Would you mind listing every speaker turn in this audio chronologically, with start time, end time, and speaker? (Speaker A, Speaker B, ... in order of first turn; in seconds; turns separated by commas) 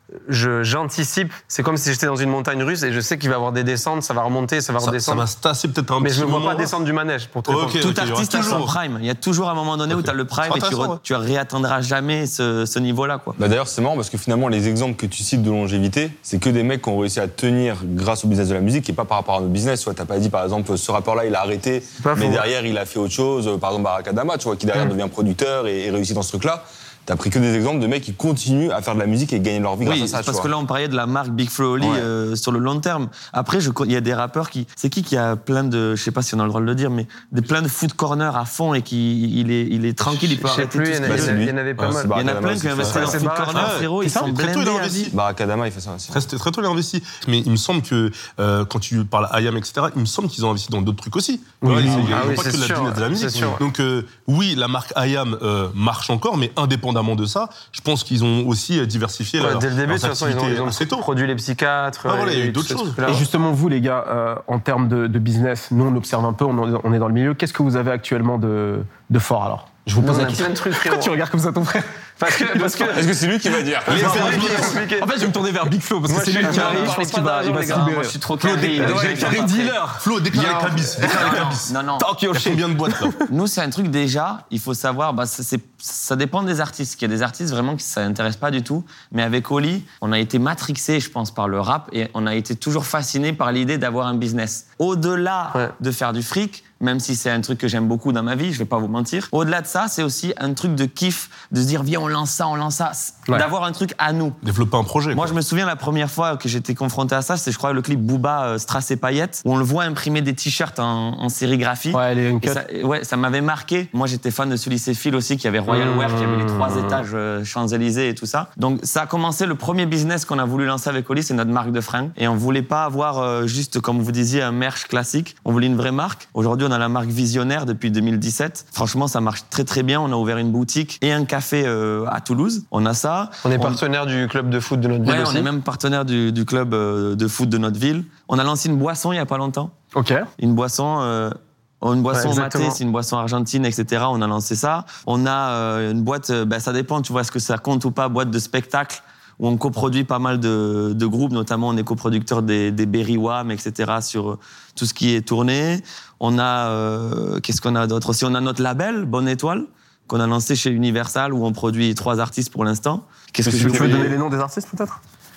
Speaker A: 0.2-5.3, Speaker B: 4.8-6.7, Speaker A: 6.0-7.8, Speaker B: 7.5-8.8, Speaker C: 7.8-13.4, Speaker B: 9.9-11.0, Speaker D: 13.4-30.5, Speaker A: 22.0-22.5, Speaker C: 29.8-41.4, Speaker A: 40.0-42.1, Speaker D: 41.0-43.3, Speaker B: 41.8-42.0, Speaker C: 42.1-45.1, Speaker B: 42.8-45.1, Speaker A: 42.9-43.8, Speaker E: 44.0-44.3, Speaker D: 45.1-46.2, Speaker B: 46.1-61.0, Speaker E: 51.6-52.4, Speaker D: 51.9-52.2, Speaker A: 52.0-53.6, Speaker A: 59.4-63.2, Speaker B: 62.1-63.0, Speaker E: 63.1-73.1, Speaker A: 70.0-71.2, Speaker A: 72.2-73.1, Speaker D: 72.9-74.7, Speaker E: 73.9-83.2, Speaker B: 73.9-74.8, Speaker A: 73.9-75.3, Speaker A: 76.1-78.0, Speaker C: 76.4-79.8, Speaker B: 78.6-79.4, Speaker A: 78.7-79.5, Speaker B: 79.9-81.7, Speaker C: 81.0-82.1, Speaker B: 82.3-83.2, Speaker C: 83.3-104.4, Speaker B: 104.4-105.3, Speaker C: 105.1-133.8, Speaker E: 111.9-112.6, Speaker E: 115.7-117.0, Speaker A: 133.4-135.5, Speaker C: 135.0-139.7, Speaker E: 139.9-140.3, Speaker C: 140.4-164.2, Speaker A: 142.1-142.8, Speaker E: 163.4-165.0, Speaker B: 163.6-164.0